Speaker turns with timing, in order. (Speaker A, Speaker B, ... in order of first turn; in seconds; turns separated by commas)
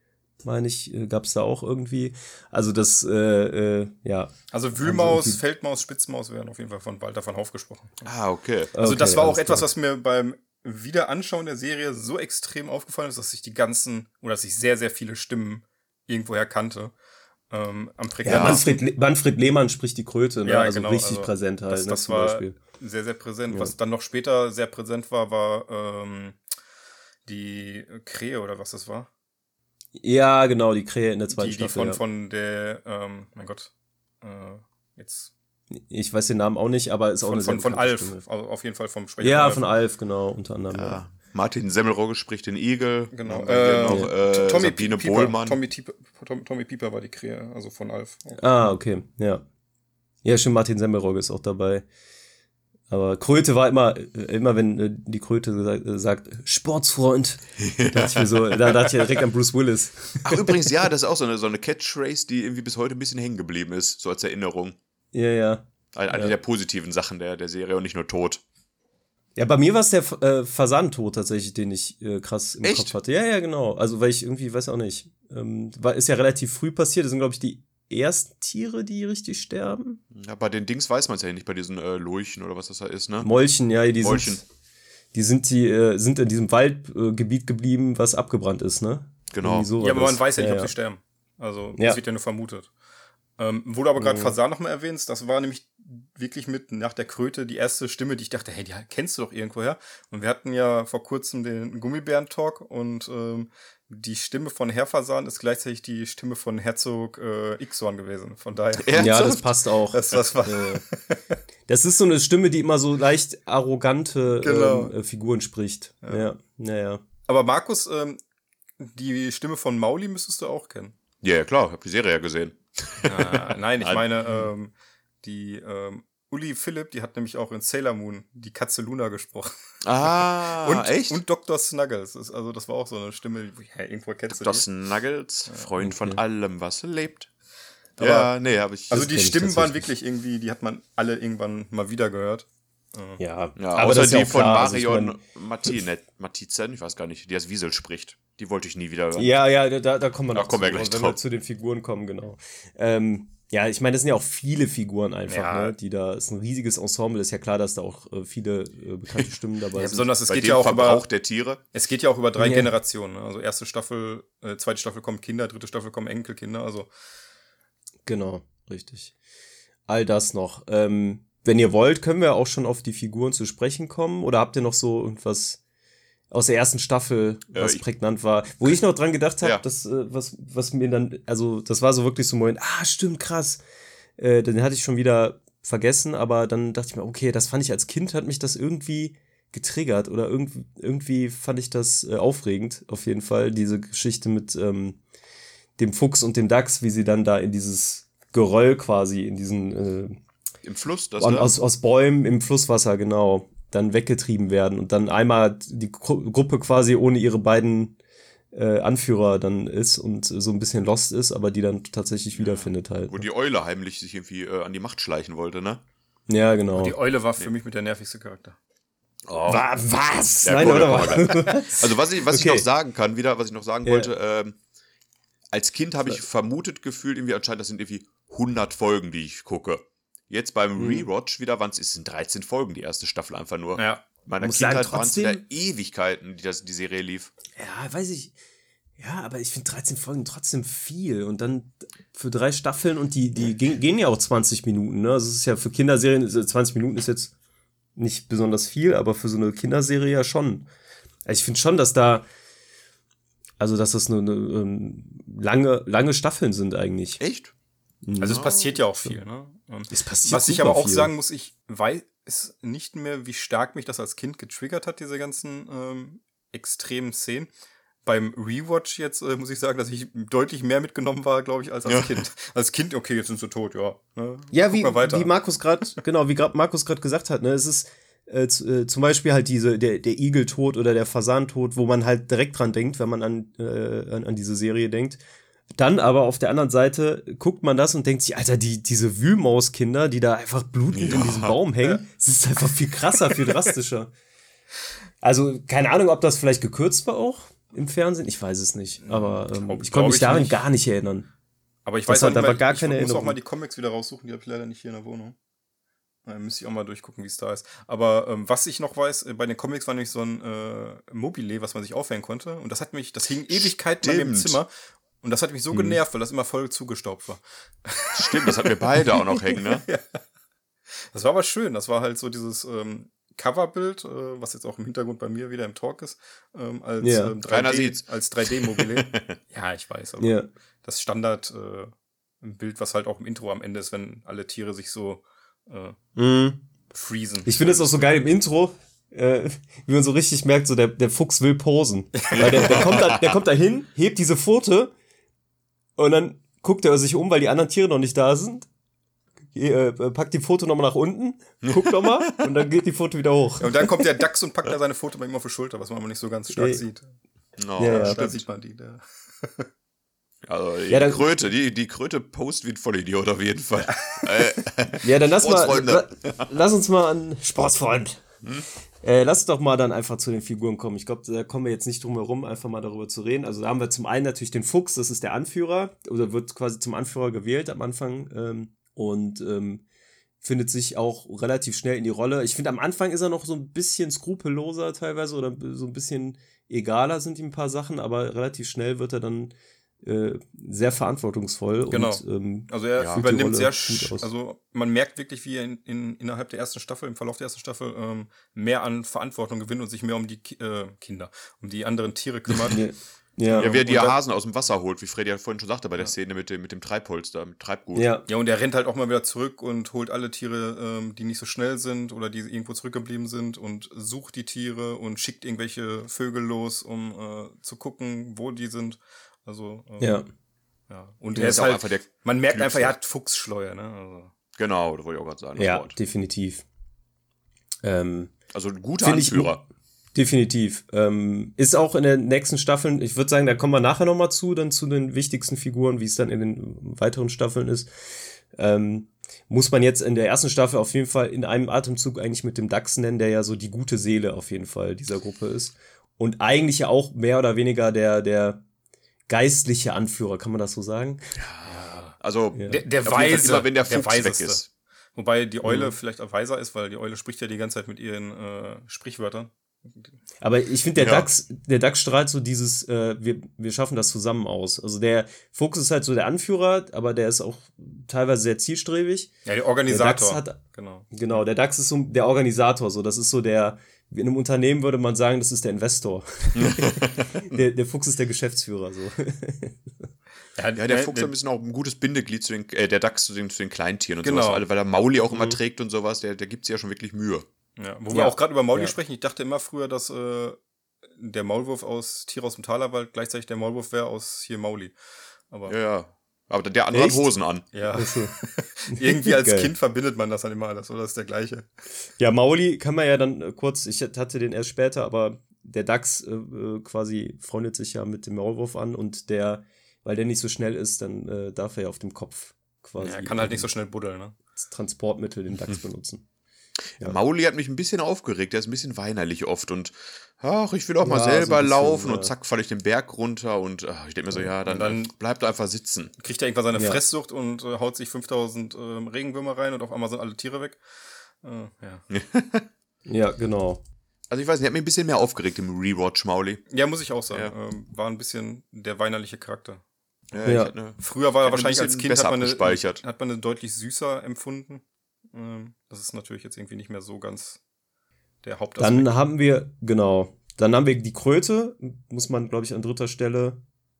Speaker A: 0.4-5.4, Speaker B: 4.5-8.1, Speaker C: 8.0-8.7, Speaker A: 8.7-9.7, Speaker B: 8.8-16.9, Speaker B: 17.5-18.8, Speaker A: 18.2-22.6, Speaker C: 18.3-18.6, Speaker B: 20.4-26.4, Speaker B: 27.2-29.1, Speaker A: 30.0-32.0, Speaker B: 31.3-33.7, Speaker B: 34.2-35.3, Speaker A: 35.8-38.2, Speaker B: 37.2-39.6, Speaker A: 39.2-41.0, Speaker C: 40.7-45.6, Speaker B: 43.1-48.4, Speaker A: 43.8-44.1, Speaker A: 48.4-49.4, Speaker A: 50.2-51.8, Speaker A: 52.9-60.7, Speaker C: 57.8-58.2, Speaker C: 60.2-64.8, Speaker A: 65.1-66.3, Speaker C: 65.9-68.4, Speaker A: 69.3-80.0, Speaker C: 72.6-72.9, Speaker C: 80.1-83.3, Speaker A: 83.2-84.4, Speaker C: 84.0-84.4, Speaker A: 85.1-90.7, Speaker C: 89.3-89.7, Speaker B: 89.8-92.7, Speaker B: 93.4-109.2, Speaker A: 94.0-94.3, Speaker C: 108.8-109.5, Speaker A: 108.9-110.8, Speaker B: 109.9-111.2, Speaker A: 111.7-117.0, Speaker B: 114.4-114.9, Speaker B: 117.3-118.2, Speaker B: 118.8-121.0, Speaker C: 121.2-124.4, Speaker B: 123.0-124.7, Speaker B: 125.2-134.7, Speaker C: 129.8-131.2, Speaker C: 134.3-137.3, Speaker A: 135.8-136.2, Speaker B: 138.0-138.3, Speaker C: 138.0-139.0, Speaker B: 138.9-143.2, Speaker A: 138.9-139.8, Speaker A: 143.2-145.2, Speaker C: 143.6-149.3, Speaker A: 149.1-160.1, Speaker C: 150.3-151.2, Speaker B: 155.3-155.7, Speaker B: 159.7-161.0, Speaker C: 160.3-161.6, Speaker B: 161.7-166.9, Speaker A: 162.4-162.7, Speaker A: 168.1-169.1, Speaker A: 169.9-175.6, Speaker A: 176.3-183.6, Speaker C: 177.5-177.8, Speaker A: 184.2-195.0, Speaker A: 195.8-200.2, Speaker C: 200.6-201.5, Speaker A: 201.2-207.9, Speaker A: 208.5-213.2, Speaker C: 212.4-215.8, Speaker A: 216.3-217.0, Speaker B: 216.7-218.6, Speaker C: 219.3-219.6, Speaker A: 219.4-222.7, Speaker C: 220.4-224.6, Speaker A: 223.8-224.1, Speaker C: 225.5-237.3, Speaker A: 230.8-231.1, Speaker B: 233.8-234.0, Speaker A: 234.4-235.4, Speaker A: 237.6-238.3, Speaker A: 239.0-247.3, Speaker A: 247.9-250.7, Speaker A: 251.2-252.2, Speaker A: 253.6-257.2, Speaker C: 257.2-257.5, Speaker A: 258.0-258.5, Speaker B: 258.2-267.5, Speaker C: 258.3-258.7, Speaker A: 259.9-261.1, Speaker B: 268.1-275.3, Speaker C: 271.9-272.2, Speaker A: 274.5-285.2, Speaker A: 285.7-294.1, Speaker C: 290.9-291.6, Speaker A: 295.2-301.3, Speaker B: 299.0-300.6, Speaker B: 301.9-305.4, Speaker A: 302.1-303.4, Speaker B: 306.2-314.7, Speaker C: 313.5-314.6, Speaker B: 315.2-320.0, Speaker A: 315.7-316.0, Speaker C: 318.1-319.9, Speaker B: 321.1-335.9, Speaker A: 327.0-327.3, Speaker C: 327.5-329.4, Speaker A: 330.2-330.5, Speaker A: 336.1-336.6, Speaker B: 336.9-338.1, Speaker A: 337.4-344.9, Speaker B: 342.3-342.8, Speaker C: 342.3-343.3, Speaker A: 346.0-348.7, Speaker A: 349.5-354.0, Speaker C: 351.6-352.3, Speaker B: 353.6-357.1, Speaker A: 356.5-356.8, Speaker C: 357.6-358.2, Speaker A: 357.8-358.4, Speaker B: 357.8-359.7, Speaker C: 360.4-366.5, Speaker A: 360.9-361.3, Speaker A: 365.0-368.2, Speaker A: 369.0-379.8, Speaker A: 380.4-394.3, Speaker B: 391.9-402.8, Speaker A: 402.7-403.7, Speaker B: 403.4-404.2, Speaker C: 403.6-408.1, Speaker A: 407.9-408.2, Speaker B: 408.3-420.2, Speaker A: 420.0-420.3, Speaker B: 420.9-424.3, Speaker C: 421.3-422.9, Speaker C: 424.6-425.9, Speaker A: 425.6-426.6, Speaker A: 427.8-428.3, Speaker C: 428.5-429.6, Speaker A: 429.0-429.6, Speaker A: 430.1-437.9, Speaker A: 438.5-448.6, Speaker A: 449.3-451.4, Speaker C: 451.4-454.6, Speaker A: 452.5-452.8, Speaker B: 452.7-454.6, Speaker B: 455.1-459.5, Speaker A: 455.6-455.9, Speaker A: 460.4-469.3, Speaker C: 461.0-461.3, Speaker B: 469.4-471.1, Speaker A: 469.9-470.6, Speaker A: 471.1-479.8, Speaker C: 476.5-477.6, Speaker B: 480.6-481.3, Speaker C: 480.8-487.4, Speaker B: 484.2-484.6, Speaker B: 485.3-485.6, Speaker B: 487.8-490.6, Speaker A: 488.1-488.9, Speaker B: 491.1-494.9, Speaker B: 495.5-495.8, Speaker C: 495.7-497.7, Speaker A: 496.9-497.3, Speaker B: 497.7-501.7, Speaker A: 497.9-498.4, Speaker A: 498.9-499.7, Speaker A: 502.2-513.7, Speaker B: 513.0-514.3, Speaker A: 514.6-516.2, Speaker C: 517.0-526.1, Speaker A: 521.0-522.3, Speaker B: 524.6-525.1, Speaker B: 526.2-530.8, Speaker A: 526.7-527.0, Speaker B: 531.4-532.0, Speaker C: 532.1-532.7, Speaker A: 533.1-533.8, Speaker C: 534.3-536.6, Speaker B: 536.7-539.8, Speaker C: 540.3-543.0, Speaker A: 540.4-540.7, Speaker B: 540.9-544.8, Speaker B: 545.3-547.6, Speaker B: 548.4-549.1, Speaker A: 548.8-553.6